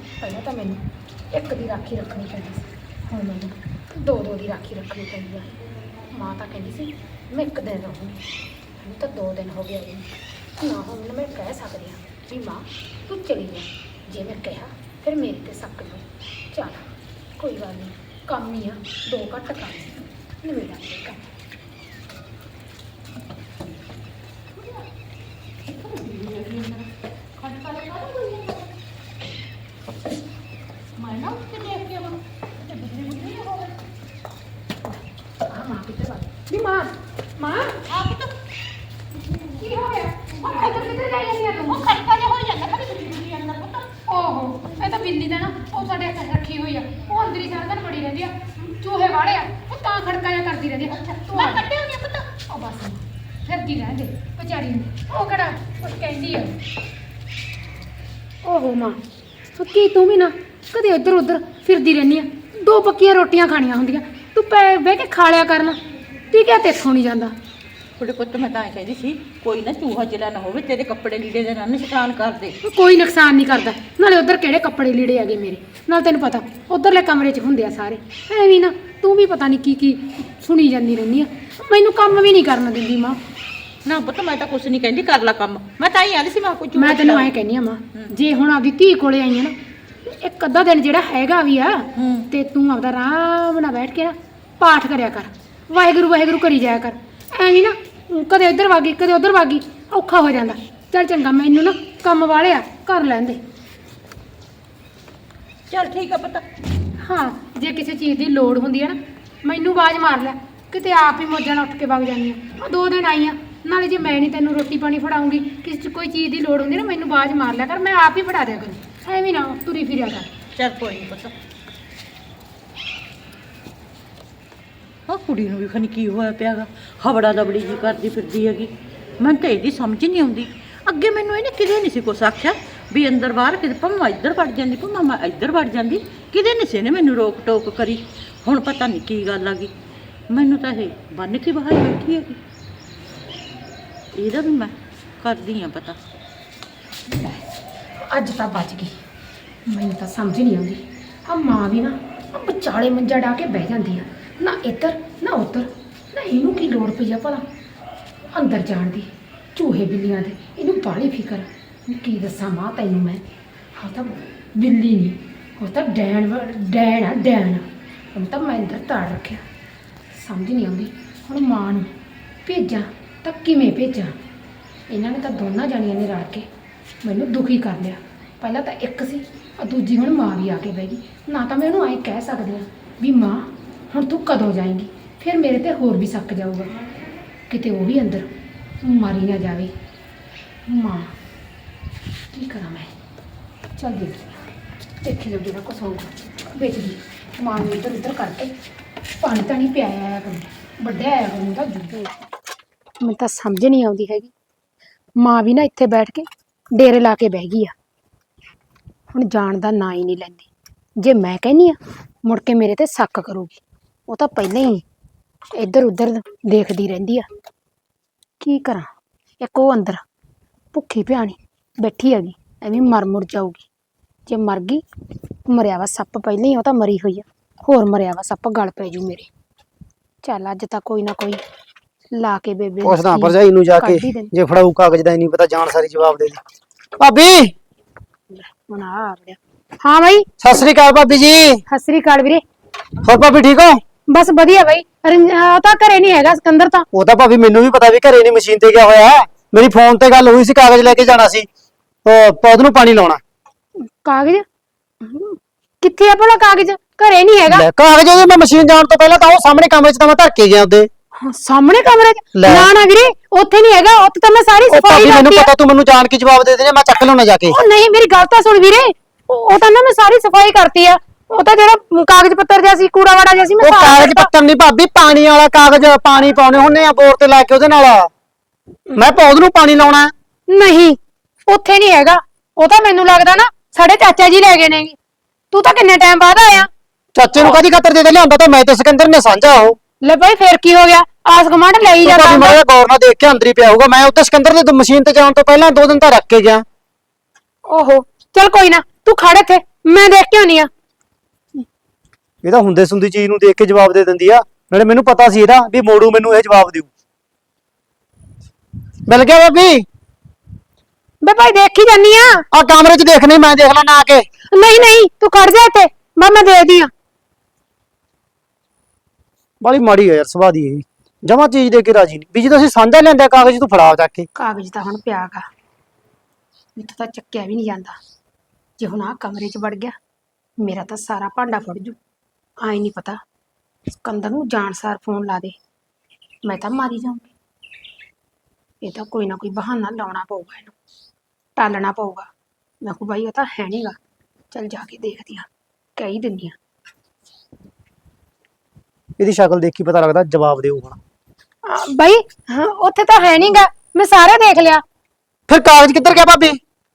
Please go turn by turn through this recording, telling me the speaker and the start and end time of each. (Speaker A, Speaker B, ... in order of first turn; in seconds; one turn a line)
Speaker A: 0.2-5.5
Speaker A: 6.1-8.2
Speaker A: 8.8-16.9
Speaker A: 17.4-21.3
Speaker B: 25.7-28.7
Speaker B: 31.0-33.8
Speaker A: 35.5-37.7
Speaker B: 37.8-38.4
Speaker A: 39.6-41.8
Speaker B: 40.4-43.9
Speaker A: 44.1-51.6
Speaker B: 51.0-52.3
Speaker A: 52.5-56.6
Speaker A: 58.4-59.0
Speaker A: 59.5-65.8
Speaker A: 66.3-67.3
Speaker B: 68.0-72.5
Speaker A: 72.6-83.2
Speaker B: 83.8-87.3
Speaker A: 86.7-89.5
Speaker A: 90.0-103.4
Speaker B: 92.0-92.2
Speaker B: 105.7-106.4
Speaker A: 107.0-120.3
Speaker B: 120.5-121.3
Speaker B: 125.1-139.7
Speaker B: 140.3-142.4
Speaker B: 144.1-145.9
Speaker A: 148.0-149.0
Speaker A: 149.7-157.4
Speaker A: 158.3-163.2
Speaker A: 163.8-169.4
Speaker A: 170.1-171.9
Speaker A: 172.4-174.2
Speaker A: 174.9-176.5
Speaker A: 177.0-186.7
Speaker A: 187.5-188.3
Speaker A: 188.8-189.7
Speaker A: 190.7-191.1
Speaker A: 192.3-192.9
Speaker A: 193.8-194.4
Speaker A: 195.0-198.5
Speaker A: 199.2-202.2
Speaker A: 203.0-204.3
Speaker A: 205.2-207.7
Speaker A: 209.1-214.8
Speaker A: 215.6-217.3
Speaker A: 218.4-218.9
Speaker A: 219.4-220.0
Speaker A: 220.7-223.7
Speaker A: 224.3-224.8
Speaker A: 225.5-229.3
Speaker A: 230.2-231.4
Speaker A: 232.1-234.3
Speaker C: 232.8-236.4
Speaker C: 237.0-237.5
Speaker A: 238.3-240.3
Speaker C: 240.4-241.6
Speaker A: 241.7-242.4
Speaker C: 243.0-243.8
Speaker A: 244.1-246.8
Speaker C: 246.9-251.5
Speaker C: 252.0-253.2
Speaker A: 253.8-254.4
Speaker A: 255.0-257.6
Speaker C: 257.5-260.9
Speaker A: 261.2-265.5
Speaker C: 262.3-262.7
Speaker C: 264.7-267.6
Speaker A: 267.5-274.3
Speaker C: 273.6-278.1
Speaker C: 278.9-280.1
Speaker A: 280.5-284.9
Speaker A: 285.5-286.7
Speaker C: 287.1-289.8
Speaker A: 290.0-292.6
Speaker C: 292.0-296.6
Speaker A: 297.7-300.7
Speaker C: 302.4-306.9
Speaker C: 309.1-309.9
Speaker A: 311.2-312.4
Speaker C: 312.5-314.2
Speaker A: 314.5-316.9
Speaker C: 319.6-324.3
Speaker A: 324.3-325.4
Speaker A: 326.8-328.0
Speaker A: 328.8-329.9
Speaker A: 330.6-332.0
Speaker A: 332.6-333.2
Speaker A: 334.0-335.5
Speaker A: 336.4-337.3
Speaker A: 338.8-340.7
Speaker A: 341.6-342.3
Speaker A: 342.8-344.0
Speaker A: 344.5-346.6
Speaker C: 349.2-351.0
Speaker A: 351.6-354.8
Speaker C: 355.5-356.6